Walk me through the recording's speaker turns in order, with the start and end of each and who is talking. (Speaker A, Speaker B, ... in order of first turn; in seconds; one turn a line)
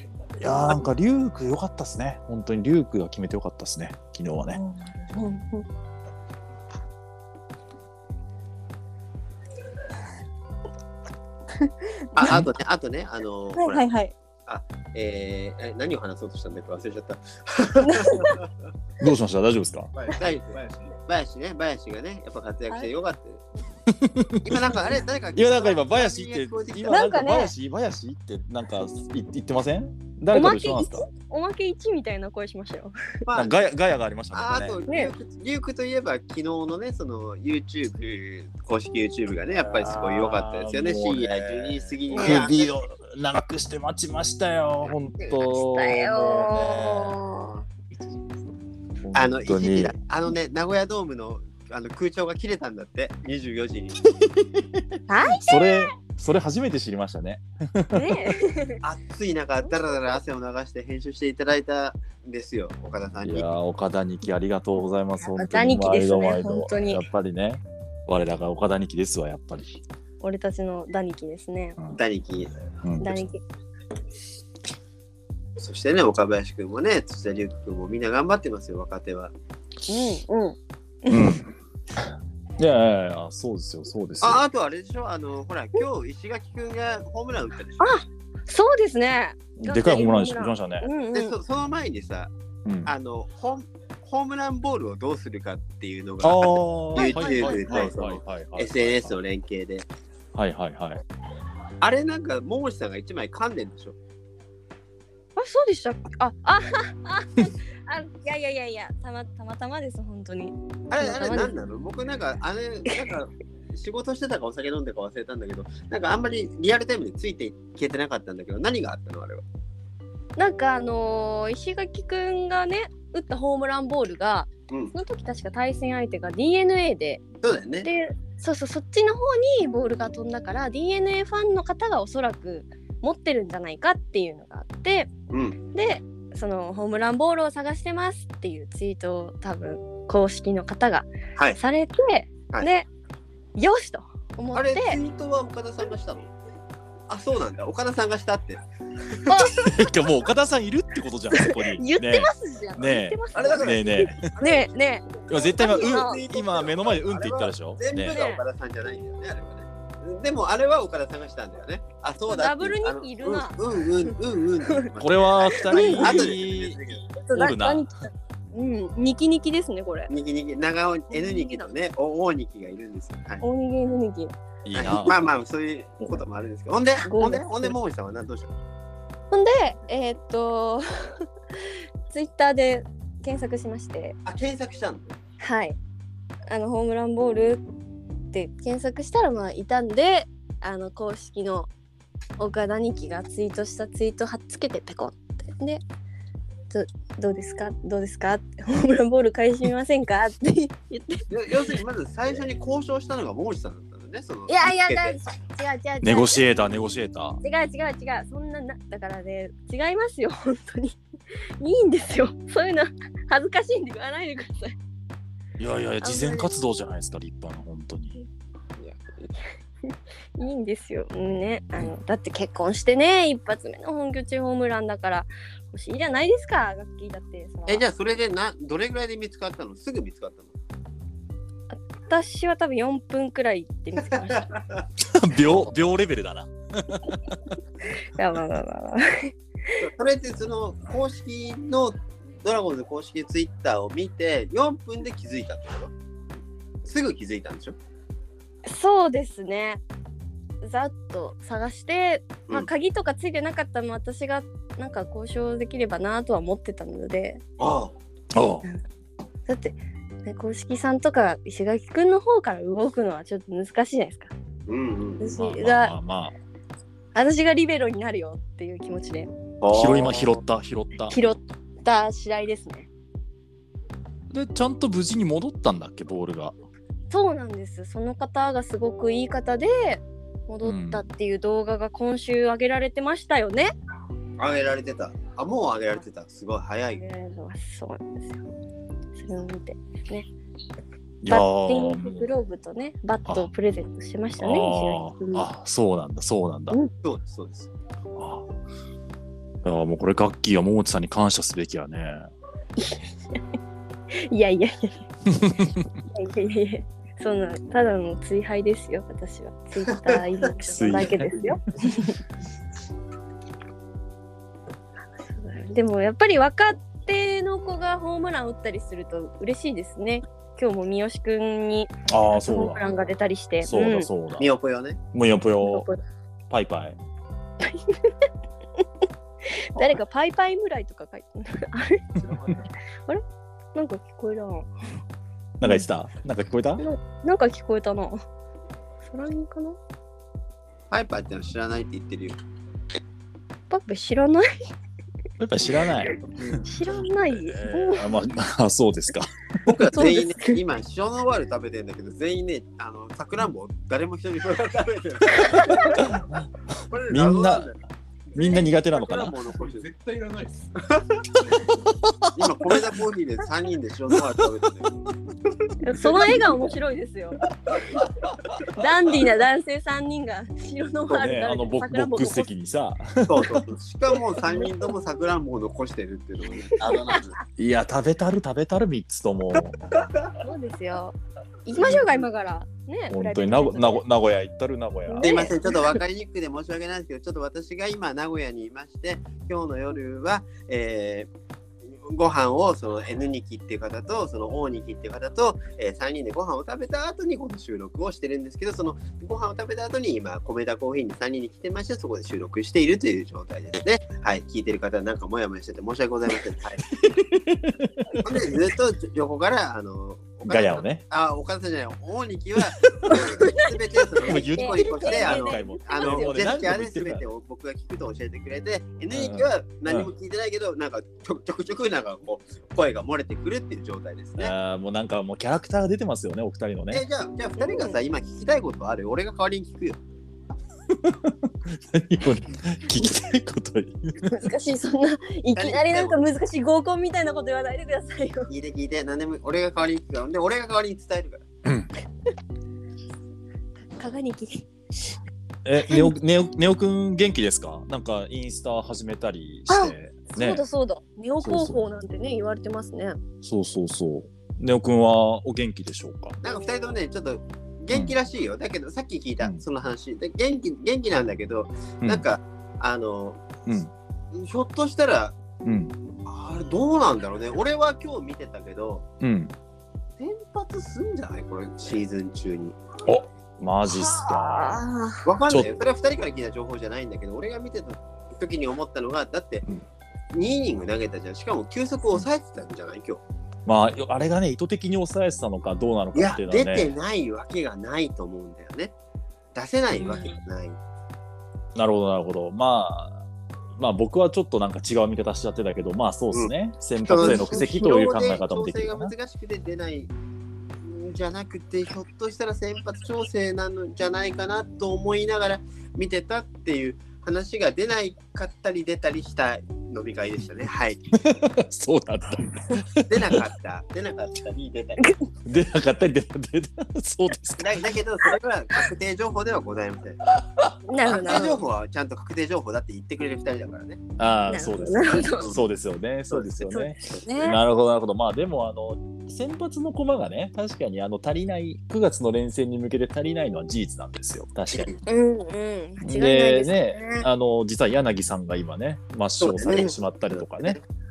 Speaker A: 0.4-4.6
Speaker B: 4.5-5.7
Speaker B: 11.6-12.4
Speaker C: 12.1-13.9
Speaker B: 13.6-14.1
Speaker C: 14.5-18.5
Speaker B: 17.8-18.4
Speaker A: 19.0-19.9
Speaker D: 19.9-21.0
Speaker C: 20.2-23.4
Speaker A: 23.9-24.8
Speaker C: 24.4-27.1
Speaker A: 25.4-31.1
Speaker B: 26.9-27.5
Speaker B: 30.3-33.0
Speaker C: 33.3-33.6
Speaker A: 33.3-34.8
Speaker C: 34.3-42.7
Speaker B: 34.9-35.1
Speaker A: 39.5-47.2
Speaker B: 42.1-42.4
Speaker B: 45.2-47.6
Speaker A: 49.0-50.0
Speaker C: 49.1-54.2
Speaker B: 55.1-55.9
Speaker A: 55.2-58.3
Speaker B: 57.9-58.8
Speaker C: 58.8-63.5
Speaker A: 63.2-69.8
Speaker B: 65.2-67.0
Speaker B: 70.2-71.8
Speaker C: 72.0-72.5
Speaker A: 72.8-73.3
Speaker B: 73.0-73.4
Speaker C: 75.6-79.3
Speaker B: 79.9-81.4
Speaker A: 81.1-81.5
Speaker A: 82.6-84.4
Speaker C: 84.2-88.0
Speaker B: 87.8-91.4
Speaker A: 89.6-90.9
Speaker C: 91.1-92.3
Speaker A: 92.7-92.9
Speaker C: 92.8-99.9
Speaker A: 96.2-99.2
Speaker B: 97.0-97.9
Speaker A: 100.3-101.0
Speaker C: 101.8-104.0
Speaker B: 105.4-111.6
Speaker C: 110.9-119.4
Speaker B: 120.4-127.2
Speaker C: 127.4-127.9
Speaker B: 127.8-135.1
Speaker C: 135.3-135.6
Speaker B: 135.7-142.9
Speaker B: 143.6-145.0
Speaker C: 144.5-146.3
Speaker C: 147.1-148.6
Speaker B: 149.2-149.9
Speaker A: 149.6-154.3
Speaker B: 151.3-156.2
Speaker C: 153.3-154.7
Speaker A: 155.3-158.2
Speaker C: 155.3-167.1
Speaker B: 158.1-158.4
Speaker B: 162.3-164.1
Speaker A: 165.0-166.8
Speaker B: 165.5-166.2
Speaker B: 167.2-170.1
Speaker A: 167.3-167.9
Speaker C: 170.1-173.4
Speaker B: 171.1-171.7
Speaker B: 173.4-174.3
Speaker A: 174.7-175.2
Speaker C: 174.7-178.5
Speaker B: 177.0-177.8
Speaker B: 179.3-184.2
Speaker C: 184.3-185.2
Speaker B: 185.4-185.8
Speaker B: 186.5-187.6
Speaker B: 188.3-191.7
Speaker B: 192.4-195.8
Speaker B: 196.7-201.2
Speaker C: 201.3-205.2
Speaker B: 204.5-206.7
Speaker A: 206.0-207.4
Speaker B: 207.4-211.0
Speaker B: 211.6-214.8
Speaker A: 215.6-218.1
Speaker B: 216.0-216.5
Speaker B: 218.8-227.8
Speaker C: 227.7-230.5
Speaker B: 231.7-234.5
Speaker C: 234.3-234.8
Speaker A: 235.0-237.4
Speaker B: 237.9-239.9
Speaker C: 239.8-245.9
Speaker C: 246.8-247.8
Speaker B: 248.7-249.8
Speaker B: 250.6-257.4
Speaker C: 257.6-257.9
Speaker A: 258.3-258.6
Speaker B: 259.5-264.3
Speaker C: 264.7-265.3
Speaker B: 265.2-265.9
Speaker A: 265.2-266.4
Speaker B: 267.1-269.3
Speaker C: 269.6-270.4
Speaker A: 269.7-271.2
Speaker B: 271.1-272.9
Speaker A: 274.3-276.6
Speaker B: 277.1-283.7
Speaker A: 280.6-281.1
Speaker C: 284.4-287.0
Speaker B: 287.0-288.4
Speaker B: 289.2-290.3
Speaker A: 291.2-292.3
Speaker B: 291.3-295.5
Speaker A: 294.4-296.8
Speaker C: 297.0-297.7
Speaker A: 298.2-298.5
Speaker A: 299.6-302.3
Speaker B: 302.8-303.4
Speaker B: 304.1-305.0
Speaker A: 305.3-305.9
Speaker B: 306.1-312.1
Speaker A: 310.6-311.4
Speaker B: 315.2-324.1
Speaker A: 322.1-322.9
Speaker A: 323.6-324.5
Speaker C: 324.4-325.0
Speaker A: 325.1-325.9
Speaker B: 325.6-326.0
Speaker A: 326.5-327.0
Speaker B: 327.6-328.1
Speaker B: 329.5-332.1
Speaker D: 332.2-332.6
Speaker B: 333.7-334.7
Speaker A: 335.6-336.8
Speaker B: 336.8-338.2
Speaker B: 339.1-339.8
Speaker C: 340.9-342.4
Speaker B: 343.7-344.5
Speaker A: 345.4-346.6
Speaker B: 346.0-348.3
Speaker A: 347.3-349.3
Speaker C: 349.6-356.1
Speaker B: 349.9-350.6
Speaker B: 355.4-355.9
Speaker A: 355.9-356.4
Speaker C: 356.9-357.8
Speaker A: 357.1-357.7
Speaker A: 358.4-359.4
Speaker C: 358.4-359.9
Speaker D: 359.6-360.9
Speaker A: 362.0-362.4
Speaker C: 362.3-365.0
Speaker B: 365.8-367.4
Speaker B: 368.7-372.5
Speaker A: 371.1-373.6
Speaker C: 373.3-377.4
Speaker B: 376.9-377.2
Speaker A: 377.6-380.0
Speaker B: 380.4-384.0
Speaker A: 383.1-385.4
Speaker B: 385.1-385.9
Speaker C: 385.2-391.3
Speaker C: 392.0-407.0
Speaker A: 407.1-408.6
Speaker C: 408.2-424.5
Speaker A: 410.4-411.0
Speaker A: 412.8-413.1
Speaker B: 413.1-413.7
Speaker B: 414.2-416.5
Speaker A: 414.2-417.2
Speaker A: 419.1-420.1
Speaker A: 424.4-427.1
Speaker C: 426.9-430.0
Speaker B: 427.6-428.0
Speaker A: 430.9-434.3
Speaker B: 434.2-438.5
Speaker C: 435.6-436.2
Speaker C: 438.5-441.4
Speaker A: 441.6-441.9
Speaker B: 444.0-444.7
Speaker A: 445.6-450.6
Speaker B: 449.7-453.2
Speaker A: 451.4-451.8
Speaker A: 453.4-456.4
Speaker C: 456.4-463.5
Speaker A: 463.7-463.9
Speaker C: 464.3-465.4
Speaker A: 465.6-465.9
Speaker C: 466.3-469.1
Speaker A: 469.2-469.5
Speaker C: 470.2-472.8
Speaker A: 473.1-474.8
Speaker B: 473.9-475.2
Speaker C: 475.2-479.6
Speaker C: 480.3-483.2
Speaker A: 483.7-486.9
Speaker C: 486.1-488.9
Speaker C: 489.6-490.8
Speaker A: 491.8-493.2
Speaker A: 493.8-499.1
Speaker C: 497.1-500.1
Speaker C: 500.9-511.2
Speaker A: 511.1-513.5
Speaker C: 513.1-515.1
Speaker B: 515.0-515.3
Speaker A: 515.5-517.9
Speaker C: 517.6-520.2
Speaker A: 520.3-521.4
Speaker B: 520.9-521.6
Speaker C: 521.1-524.0
Speaker A: 524.2-534.9
Speaker B: 524.5-525.5
Speaker C: 526.3-527.2
Speaker B: 526.7-527.6
Speaker C: 534.7-535.0
Speaker B: 535.1-537.3
Speaker A: 536.0-540.8
Speaker C: 539.4-540.8